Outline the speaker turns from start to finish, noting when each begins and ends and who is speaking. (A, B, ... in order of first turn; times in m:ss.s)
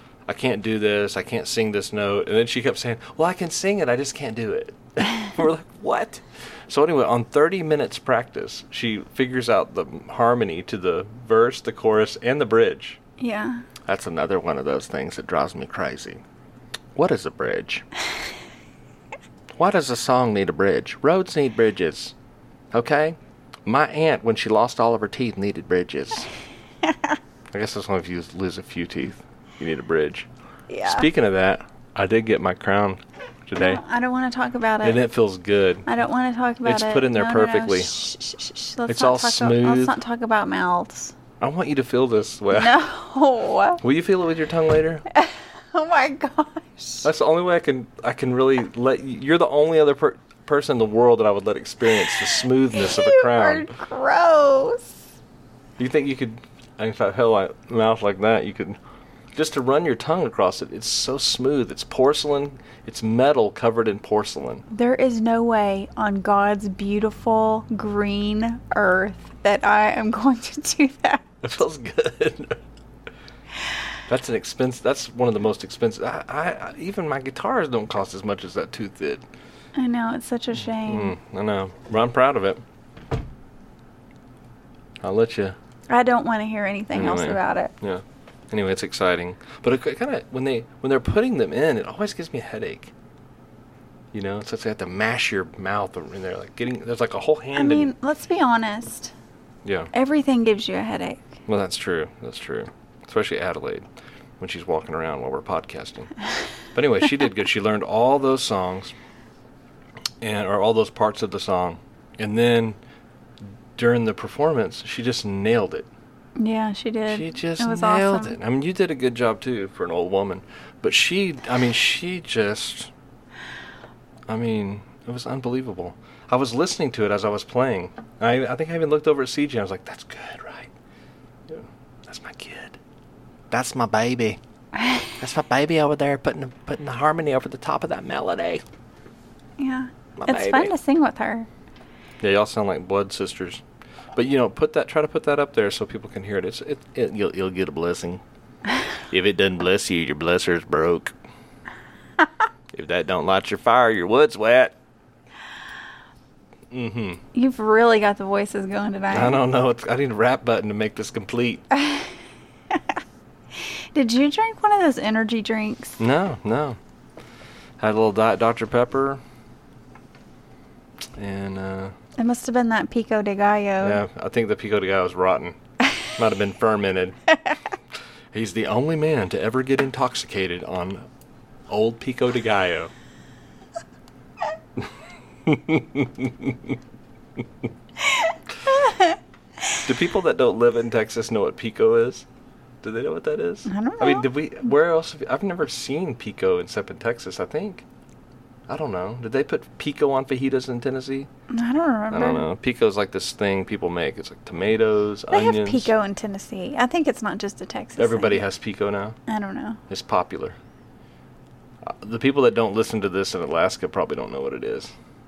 0:00.3-0:13.0 A
0:13.2-0:13.6 B
0:13.9-0:16.2 A
0:17.0-0:17.9 A
0:19.5-0:22.2 A
0:22.7-0:26.3 A
0:26.8-0:27.2 B
0:27.5-0:30.3 A
0:30.7-0:31.1 B
0:30.8-0:33.8 A
0:33.6-0:35.0 B
0:34.8-0:35.9 A
0:35.9-0:41.2 B
0:36.6-0:38.0 A
0:38.9-0:40.0 A
0:41.4-0:42.8 A
0:42.5-0:43.8 B
0:43.8-0:45.0 A
0:45.1-0:47.1 B
0:47.0-0:53.7 A
0:52.7-0:55.0 B
0:55.8-0:58.8 A
0:59.4-1:04.6 A
1:04.7-1:11.3 B
1:11.4-1:12.6 A
1:14.1-1:19.2 A
1:19.8-1:21.2 B
1:20.7-1:22.6 A
1:25.0-1:25.6 A
1:25.9-1:27.7 B
1:26.9-1:32.9 A
1:34.1-1:37.9 A
1:37.6-1:39.1 B
1:39.6-1:39.9 A
1:39.9-1:41.4 B
1:41.5-1:43.8 A
1:44.4-1:46.1 A
1:46.7-1:48.9 A
1:50.2-1:52.8 A
1:53.8-1:55.9 A
1:56.4-1:58.4 B
1:57.1-2:02.9 A
2:04.3-2:10.7 A
2:11.5-2:12.8 A
2:13.5-2:14.4 A
2:15.0-2:18.6 A
2:19.6-2:21.5 B
2:20.2-2:20.7 A
2:22.2-2:23.6 A
2:24.2-2:28.2 A
2:29.1-2:31.1 A
2:32.7-2:34.8 A
2:36.7-2:37.2 A
2:37.3-2:39.4 B
2:39.1-2:41.6 A
2:41.8-2:42.1 B
2:43.5-2:46.0 B
2:46.0-2:46.8 A
2:47.8-2:49.2 A
2:51.2-2:51.9 A
2:52.2-2:54.0 B
2:53.8-2:57.2 A
2:58.3-3:01.0 A
3:01.7-3:02.9 A
3:05.4-3:06.8 A
3:08.1-3:09.2 B
3:09.7-3:12.3 A
3:12.8-3:17.8 A
3:13.7-3:14.3 B
3:18.7-3:21.3 A
3:21.5-3:22.5 B
3:22.1-3:25.9 A
3:25.3-3:28.4 B
3:28.0-3:29.2 A
3:29.3-3:29.8 B
3:29.9-3:30.6 A
3:31.8-3:34.9 A